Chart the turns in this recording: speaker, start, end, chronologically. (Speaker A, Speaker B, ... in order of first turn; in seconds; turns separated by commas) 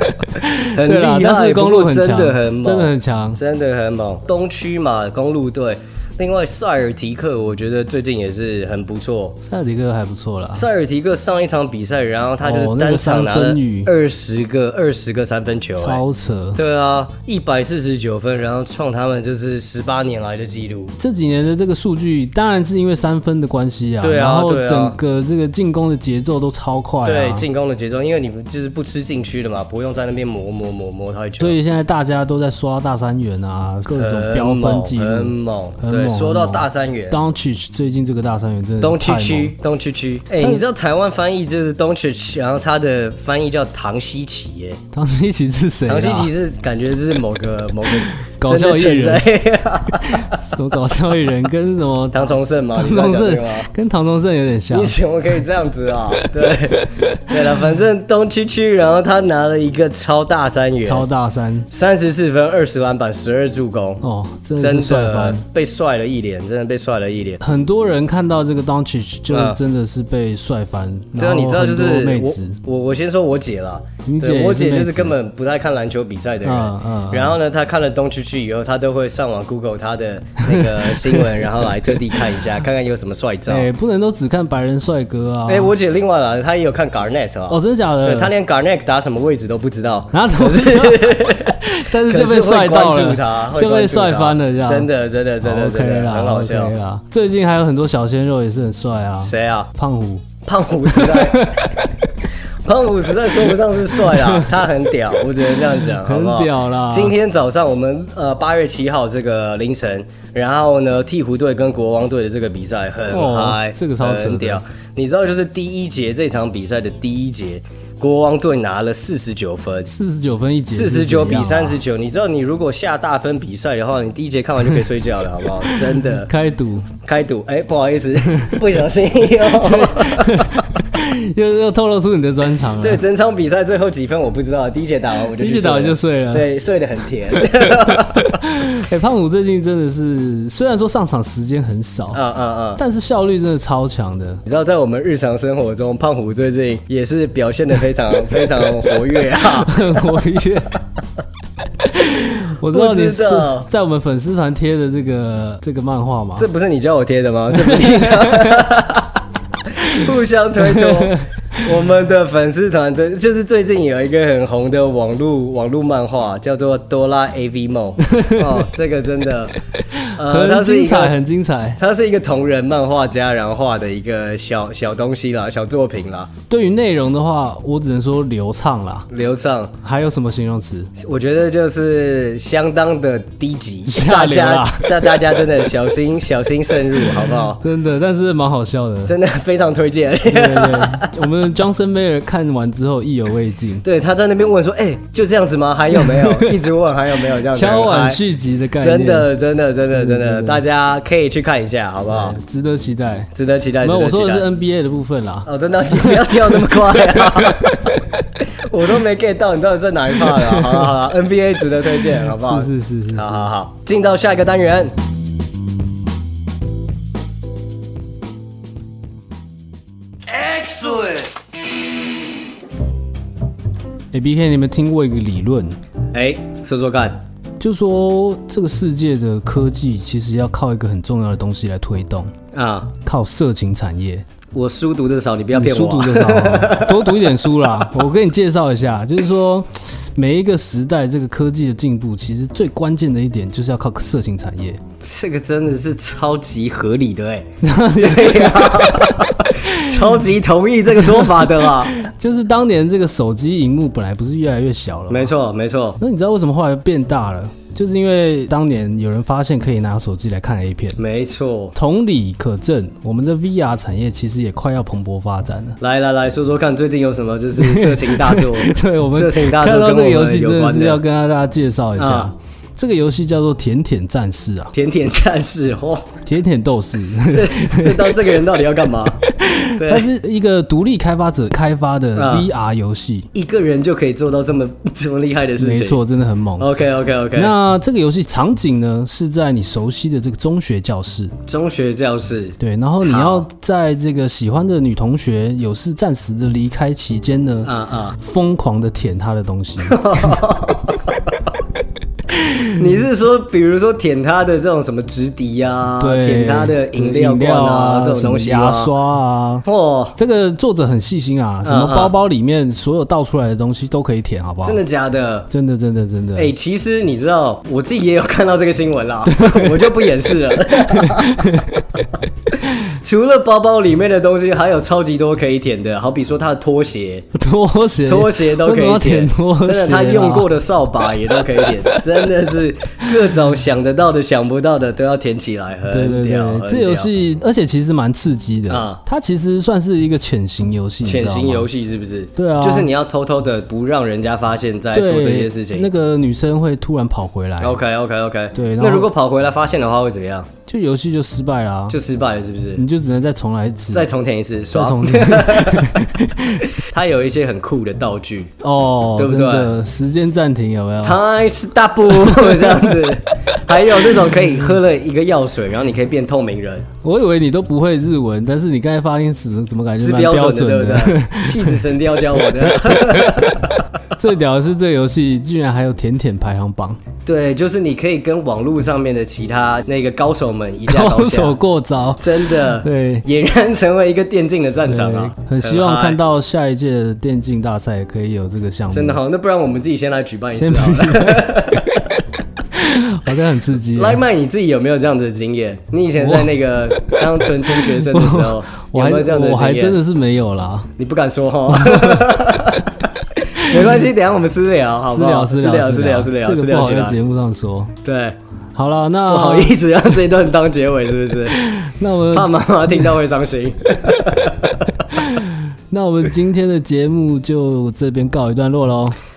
Speaker A: 0.3-3.4, Speaker B: 0.7-9.4, Speaker A: 9.4-10.7, Speaker B: 10.5-16.0, Speaker A: 12.4-13.9, Speaker A: 15.8-16.6, Speaker B: 16.5-20.9, Speaker A: 21.0-27.5, Speaker B: 24.0-25.0, Speaker B: 27.0-31.6, Speaker A: 31.4-39.5, Speaker B: 34.0-37.2, Speaker B: 38.8-44.8, Speaker A: 40.4-40.6, Speaker A: 44.9-46.3, Speaker B: 45.9-50.4, Speaker A: 48.3-49.3, Speaker A: 50.1-55.0, Speaker B: 52.1-53.7, Speaker B: 54.7-61.0, Speaker A: 56.2-57.4, Speaker A: 60.8-61.7, Speaker B: 61.7-64.0, Speaker A: 64.0-65.4, Speaker B: 64.6-67.4, Speaker A: 67.4-72.6, Speaker B: 69.3-69.6, Speaker B: 71.2-83.7, Speaker A: 74.0-75.1, Speaker A: 76.4-77.4, Speaker A: 80.5-81.2, Speaker A: 83.5-85.7, Speaker B: 85.5-96.7, Speaker A: 87.5-88.3, Speaker A: 90.1-94.9, Speaker A: 95.4-100.2, Speaker B: 99.2-99.7, Speaker B: 100.4-101.8, Speaker A: 100.8-101.7, Speaker B: 102.7-119.9, Speaker A: 104.0-104.5, Speaker A: 105.9-107.1, Speaker A: 113.1-114.6, Speaker A: 119.9-121.8, Speaker B: 120.7-126.3, Speaker A: 125.9-126.9, Speaker B: 127.0-130.4, Speaker A: 129.6-133.0, Speaker B: 132.8-138.3, Speaker A: 135.4-136.5, Speaker A: 138.4-142.2, Speaker B: 142.1-142.8, Speaker A: 142.8-144.4, Speaker B: 144.4-149.8, Speaker A: 149.6-150.7, Speaker A: 151.9-156.5, Speaker B: 152.7-153.7, Speaker B: 156.4-159.1, Speaker A: 157.5-158.7, Speaker B: 159.9-169.5, Speaker A: 160.6-161.7, Speaker A: 168.2-168.6, Speaker A: 170.1-171.8, Speaker B: 170.1-171.2, Speaker B: 171.8-176.3, Speaker A: 176.5-179.1, Speaker B: 179.1-179.7, Speaker A: 179.8-180.9, Speaker B: 181.0-187.6, Speaker A: 183.8-185.2, Speaker A: 187.6-189.1, Speaker B: 189.0-191.1, Speaker A: 190.2-193.8, Speaker B: 193.8-198.2, Speaker A: 195.9-196.6, Speaker A: 197.5-199.3, Speaker B: 198.8-202.4, Speaker A: 199.9-200.6, Speaker A: 202.1-203.3, Speaker B: 203.3-204.5, Speaker A: 203.8-207.6, Speaker B: 205.4-207.9, Speaker B: 208.7-214.9, Speaker A: 210.2-210.9, Speaker A: 212.3-213.5, Speaker B: 220.3-221.3, Speaker A: 224.1-225.8, Speaker B: 226.1-227.2, Speaker A: 227.6-232.3, Speaker B: 232.5-232.9, Speaker A: 233.0-234.2, Speaker B: 234.5-237.2, Speaker A: 235.5-244.8, Speaker B: 245.0-251.9, Speaker A: 247.6-250.1, Speaker A: 251.1-255.3, Speaker B: 255.1-256.0, Speaker A: 256.0-261.0, Speaker B: 261.0-261.8, Speaker A: 261.7-265.8, Speaker B: 265.8-271.0, Speaker A: 267.6-274.7, Speaker B: 272.0-272.3, Speaker B: 274.7-276.1, Speaker A: 276.2-278.1, Speaker B: 277.3-279.2, Speaker A: 279.4-283.3, Speaker B: 279.8-280.1, Speaker B: 282.1-282.5, Speaker B: 283.3-286.0, Speaker A: 285.6-286.7, Speaker B: 286.6-287.5, Speaker A: 287.3-291.3, Speaker B: 291.5-293.4, Speaker A: 292.6-300.5, Speaker B: 297.6-298.2, Speaker B: 299.9-301.1, Speaker B: 302.8-308.9, Speaker A: 306.0-309.6, Speaker B: 309.6-310.2, Speaker A: 310.2-314.8, Speaker B: 311.6-312.1, Speaker B: 314.6-315.5, Speaker A: 315.5-316.5, Speaker B: 316.4-321.2, Speaker A: 319.2-319.8, Speaker A: 320.9-321.7, Speaker B: 322.9-327.3, Speaker A: 327.3-330.5, Speaker B: 328.1-337.1, Speaker A: 335.9-341.7, Speaker B: 338.7-339.0, Speaker B: 341.0-345.9, Speaker A: 342.4-342.9, Speaker A: 344.9-347.8, Speaker B: 347.6-350.5, Speaker A: 348.5-349.1, Speaker A: 350.7-352.0, Speaker B: 351.9-352.8, Speaker A: 352.8-354.1, Speaker B: 353.9-356.1, Speaker A: 354.7-356.6, Speaker B: 356.8-358.5, Speaker A: 358.6-361.2, Speaker B: 359.2-359.7, Speaker B: 361.0-366.9, Speaker A: 362.2-362.9, Speaker A: 367.0-371.8, Speaker B: 370.0-373.7, Speaker A: 374.2-377.0, Speaker B: 377.2-381.6, Speaker A: 380.9-383.3, Speaker B: 382.2-386.2, Speaker A: 384.8-389.2, Speaker B: 388.9-391.9, Speaker A: 390.5-391.9, Speaker A: 392.8-394.2, Speaker B: 393.9-400.0, Speaker A: 396.2-396.5, Speaker A: 397.4-400.9, Speaker B: 401.0-407.2, Speaker A: 401.7-402.3, Speaker A: 405.1-407.9, Speaker B: 408.0-408.4, Speaker A: 408.7-409.8, Speaker B: 409.3-411.6, Speaker A: 411.5-412.5, Speaker B: 412.3-414.7, Speaker A: 415.1-419.1